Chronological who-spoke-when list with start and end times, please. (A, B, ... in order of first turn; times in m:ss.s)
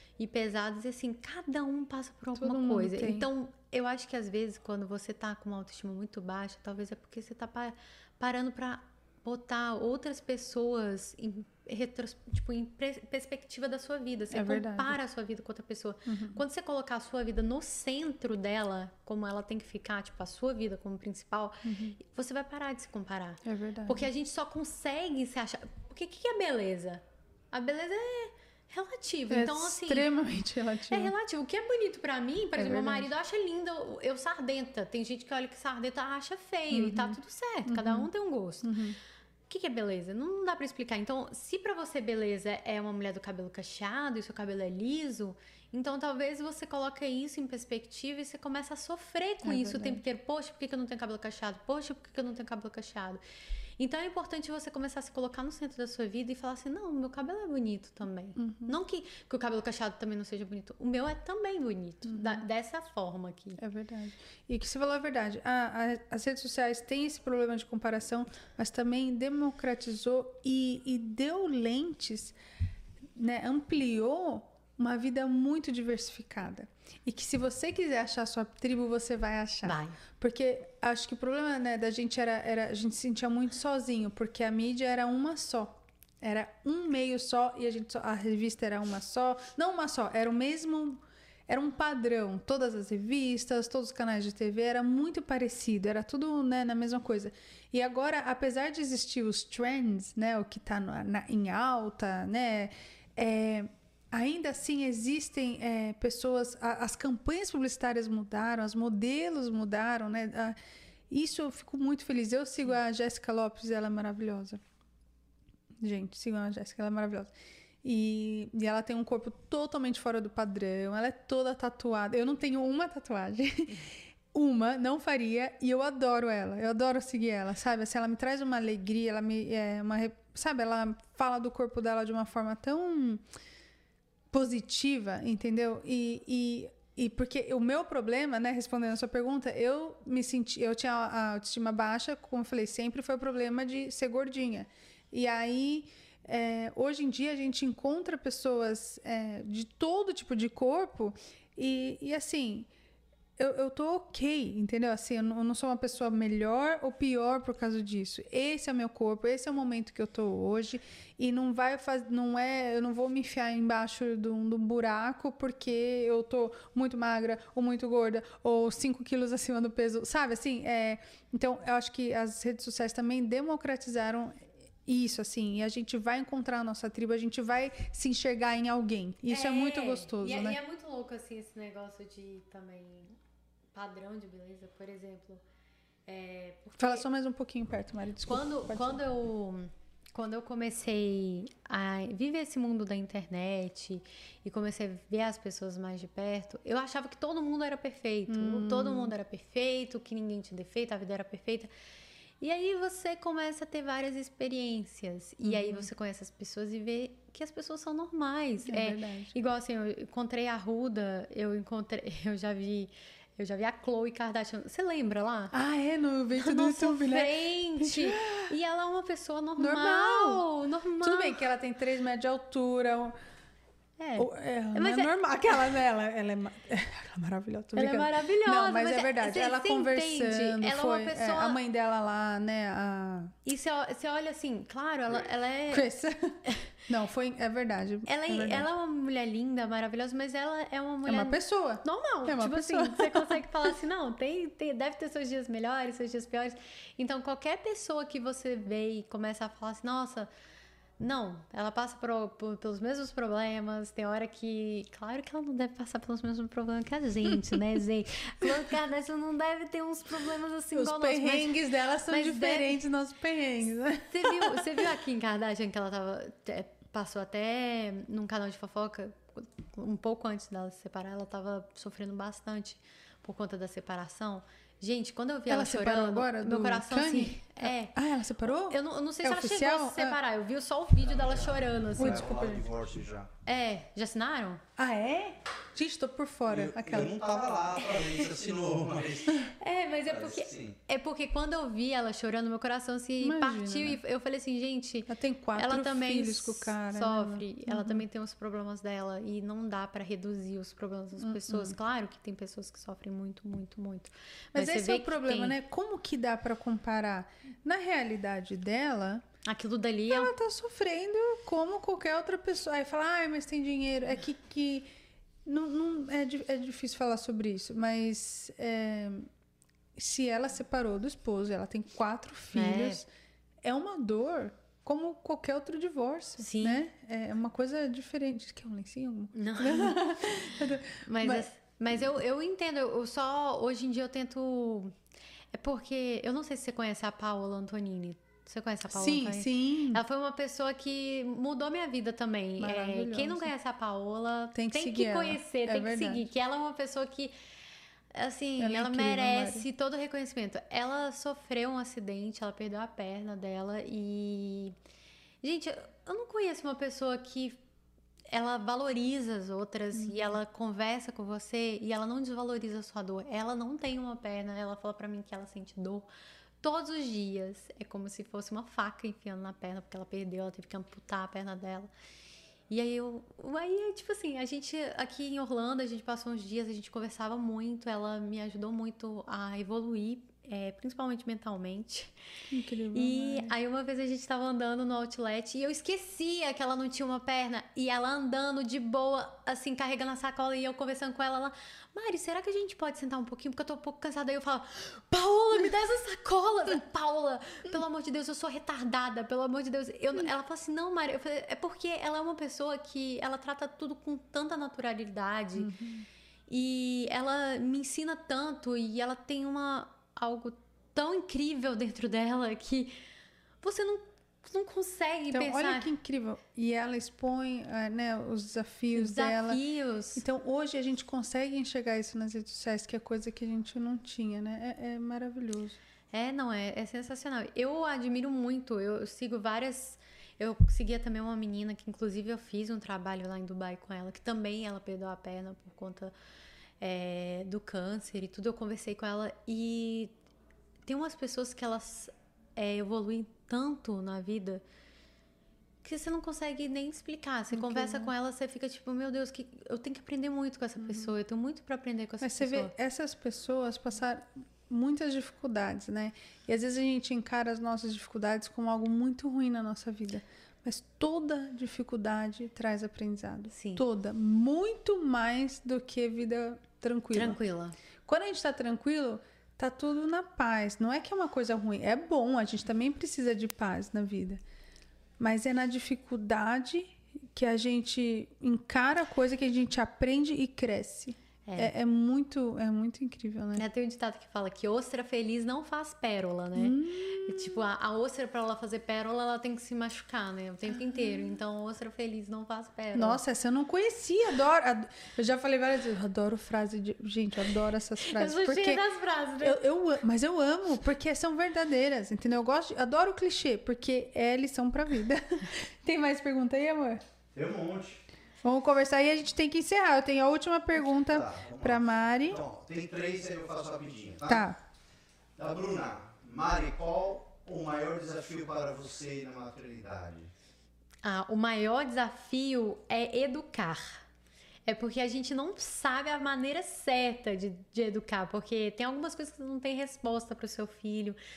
0:00.2-0:30.1 A
0:02.4-0:03.3 B
0:14.3-0:15.0 B
0:16.0-0:16.4 B
0:21.6-0:22.0 B
0:23.4-0:24.1 B
0:29.3-0:31.1 B
0:30.9-0:38.8 A
0:32.6-0:33.1 B
0:36.7-0:38.1 B
0:38.6-0:39.0 B
0:39.5-0:53.2 A
0:49.4-0:50.0 B
0:53.8-1:03.6 A
0:58.4-0:58.7 B
1:02.0-1:02.4 B
1:03.6-1:12.3 B
1:13.2-1:50.6 B
1:19.6-1:20.0 A
1:51.1-1:54.6 B
1:55.8-1:57.3 B
1:57.8-2:13.2 B
2:14.3-2:32.7 B
2:33.4-3:00.6 B
2:59.3-3:03.2 A
3:03.7-3:05.4 A
3:06.0-3:07.0 A
3:06.8-3:09.0 B
3:08.3-3:21.7 A
3:18.3-3:19.1 B
3:22.4-3:35.5 A
3:25.4-3:25.9 B
3:28.6-3:29.3 B
3:35.5-3:38.5 B
3:36.4-3:41.4 A
3:39.6-3:40.4 B
3:41.0-3:43.1 B
3:44.0-3:45.8 A
3:44.2-3:53.3 B
3:47.7-3:51.6 A
3:53.4-3:55.8 A
3:55.7-3:58.6 B
3:56.4-3:56.7 A
3:58.0-4:10.3 A
4:01.0-4:03.7 B
4:11.0-4:21.6 A
4:17.3-4:17.6 B
4:20.7-4:24.8 B
4:22.1-4:22.8 A
4:24.1-4:37.9 A
4:35.5-4:40.2 B
4:38.5-4:42.3 A
4:41.0-4:43.3 C
4:42.0-4:42.6 B
4:43.4-4:44.6 A
4:44.8-4:48.1 B
4:46.5-4:49.5 C
4:49.5-5:05.6 A
4:50.1-4:50.8 C
4:53.2-4:54.0 B
4:55.1-4:58.0 B
5:01.2-5:01.7 B
5:04.5-5:09.2 B
5:09.4-5:10.3 A
5:10.1-5:14.9 B
5:15.4-5:19.3 B
5:20.0-5:23.1 B
5:22.5-5:23.0 A
5:23.6-5:31.5 B
5:26.4-5:26.8 A
5:29.3-5:30.4 A
5:30.9-5:34.9 A
5:35.5-5:47.3 A
5:38.9-5:40.0 B
5:42.6-5:43.5 B
5:44.5-5:46.2 B
5:48.1-5:54.8 A
5:48.6-5:49.7 B
5:55.4-5:57.6 A
5:58.3-6:06.1 A
5:59.9-6:00.4 B
6:06.6-6:11.9 A
6:12.7-6:22.1 A
6:22.5-6:23.5 B
6:22.9-6:45.7 A
6:45.6-6:46.0 B
6:46.5-6:52.9 A
6:53.6-6:55.9 A
6:55.3-6:59.6 B
6:58.9-7:00.2 A
7:00.1-7:05.8 B
7:06.1-7:16.1 A
7:16.8-7:20.1 A
7:20.9-7:24.6 A
7:25.8-7:32.7 A
7:27.5-7:28.1 B
7:30.8-7:31.1 B
7:32.2-7:47.4 B
7:43.5-7:43.8 A
7:47.1-7:47.8 A
7:48.0-7:54.4 B
7:55.2-8:03.6 B
8:01.4-8:01.7 A
8:03.6-8:13.2 A
8:06.5-8:07.6 B
8:10.7-8:11.3 B
8:12.9-8:18.8 B
8:18.0-8:19.6 A
8:19.4-8:27.0 B
8:27.3-8:28.0 C
8:28.4-8:32.4 B
8:30.9-8:34.4 C
8:34.3-8:34.6 B
8:35.4-8:40.3 C
8:41.0-8:44.0 A
8:44.6-8:51.2 A